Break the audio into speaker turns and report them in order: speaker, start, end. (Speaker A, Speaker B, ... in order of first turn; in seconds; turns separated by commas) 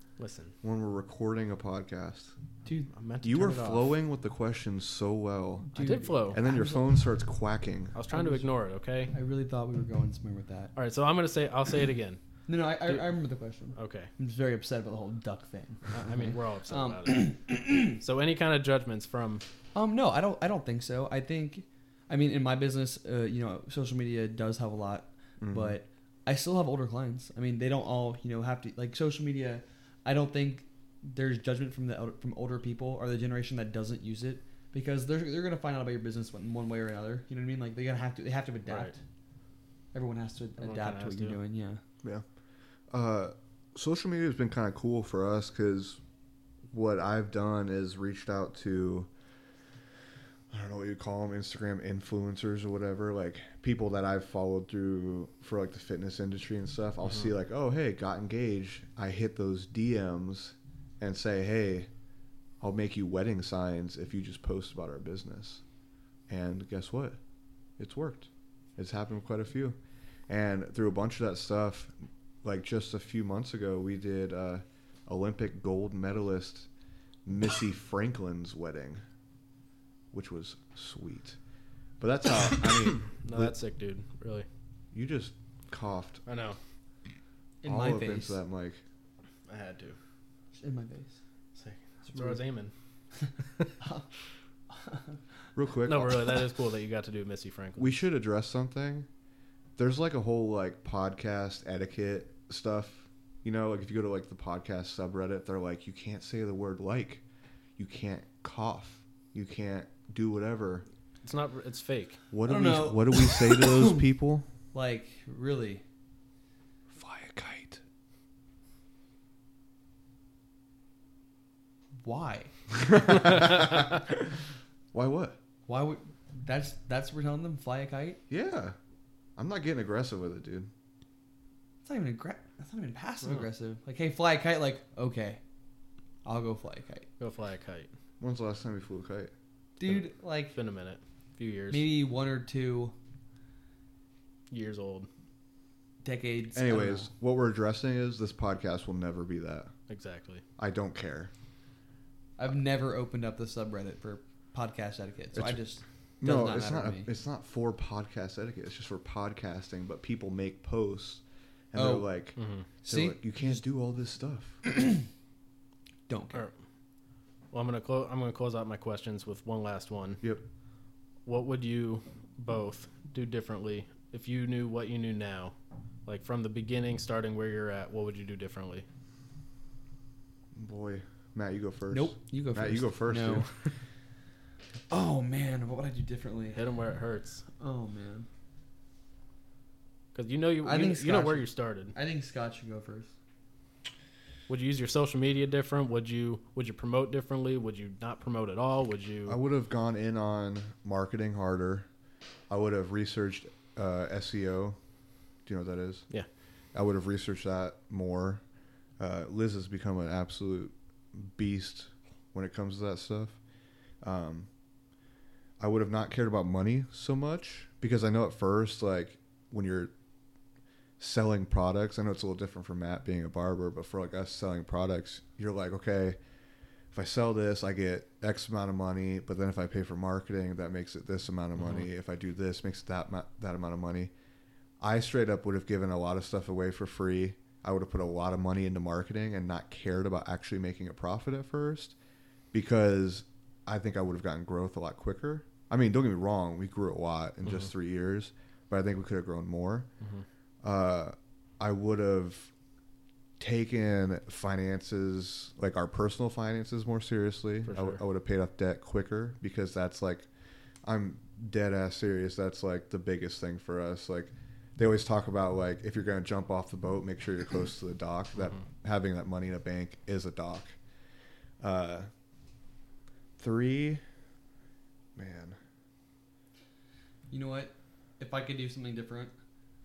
Speaker A: 0.2-0.5, Speaker B: 0.6-2.4, Speaker A: 2.9-3.9, Speaker B: 3.2-5.7, Speaker C: 5.7-6.9, Speaker A: 5.8-6.4, Speaker B: 6.3-8.0, Speaker A: 8.0-9.1, Speaker C: 8.1-8.5, Speaker C: 9.1-10.7, Speaker A: 10.8-12.2, Speaker C: 12.5-18.0, Speaker A: 13.8-14.1, Speaker A: 15.9-19.4, Speaker C: 19.7-39.0, Speaker B: 25.4-25.8, Speaker A: 38.7-38.9, Speaker C: 39.9-41.8, Speaker A: 40.6-41.4, Speaker B: 42.9-46.0, Speaker B: 46.7-49.1, Speaker B: 50.5-61.9, Speaker B: 62.6-65.6, Speaker B: 66.3-67.2, Speaker B: 67.8-69.8, Speaker B: 70.3-76.7, Speaker B: 77.2-79.0, Speaker B: 80.1-81.4, Speaker B: 82.0-83.5, Speaker A: 83.2-84.5, Speaker B: 84.9-86.2, Speaker A: 86.3-86.6, Speaker C: 87.6-88.4, Speaker B: 87.7-88.8, Speaker A: 89.5-90.0, Speaker C: 90.6-91.2, Speaker A: 91.5-92.7, Speaker C: 92.1-92.4, Speaker C: 93.8-94.1, Speaker C: 94.7-95.2, Speaker B: 95.5-96.4, Speaker A: 95.9-97.9, Speaker B: 97.8-99.1, Speaker B: 99.8-107.2, Speaker B: 107.8-110.8, Speaker A: 111.2-112.2, Speaker B: 112.3-114.5, Speaker C: 112.5-114.0, Speaker C: 114.7-115.8, Speaker B: 116.9-117.8, Speaker C: 122.0-122.5, Speaker B: 122.8-124.2, Speaker B: 124.9-125.4, Speaker C: 125.7-128.2, Speaker B: 128.3-128.8, Speaker B: 129.4-130.7, Speaker C: 131.8-135.4, Speaker C: 136.2-137.1, Speaker A: 137.2-137.9, Speaker B: 138.2-139.3, Speaker C: 139.8-140.6, Speaker A: 140.5-141.9, Speaker C: 141.7-142.9, Speaker A: 144.5-145.1, Speaker C: 146.0-147.1, Speaker B: 146.6-149.7, Speaker A: 149.9-150.4, Speaker B: 150.6-151.3, Speaker C: 152.4-157.1, Speaker B: 155.3-155.6, Speaker B: 156.2-164.6, Speaker C: 161.8-162.1, Speaker A: 162.4-162.7, Speaker C: 162.8-163.2, Speaker C: 164.7-165.1, Speaker C: 166.1-166.5, Speaker A: 167.5-170.2, Speaker A: 171.3-175.5, Speaker A: 176.1-178.8, Speaker B: 180.6-183.5, Speaker C: 181.9-183.5, Speaker C: 184.9-186.6, Speaker A: 186.6-187.4, Speaker C: 187.6-188.3, Speaker A: 190.1-191.9, Speaker C: 190.6-193.1, Speaker A: 194.5-199.4, Speaker B: 199.3-201.9, Speaker B: 202.5-204.8, Speaker B: 205.5-206.1, Speaker B: 206.7-208.4, Speaker B: 209.0-213.4, Speaker B: 214.0-214.5, Speaker B: 215.6-219.9, Speaker B: 221.0-226.2, Speaker B: 226.9-234.1, Speaker A: 231.6-231.9, Speaker B: 234.8-241.9, Speaker B: 242.5-249.9, Speaker B: 250.6-252.5, Speaker B: 253.4-260.3, Speaker A: 257.7-258.0, Speaker B: 260.8-270.8, Speaker B: 271.6-272.1, Speaker B: 273.4-274.0, Speaker B: 275.2-275.6, Speaker C: 277.3-279.3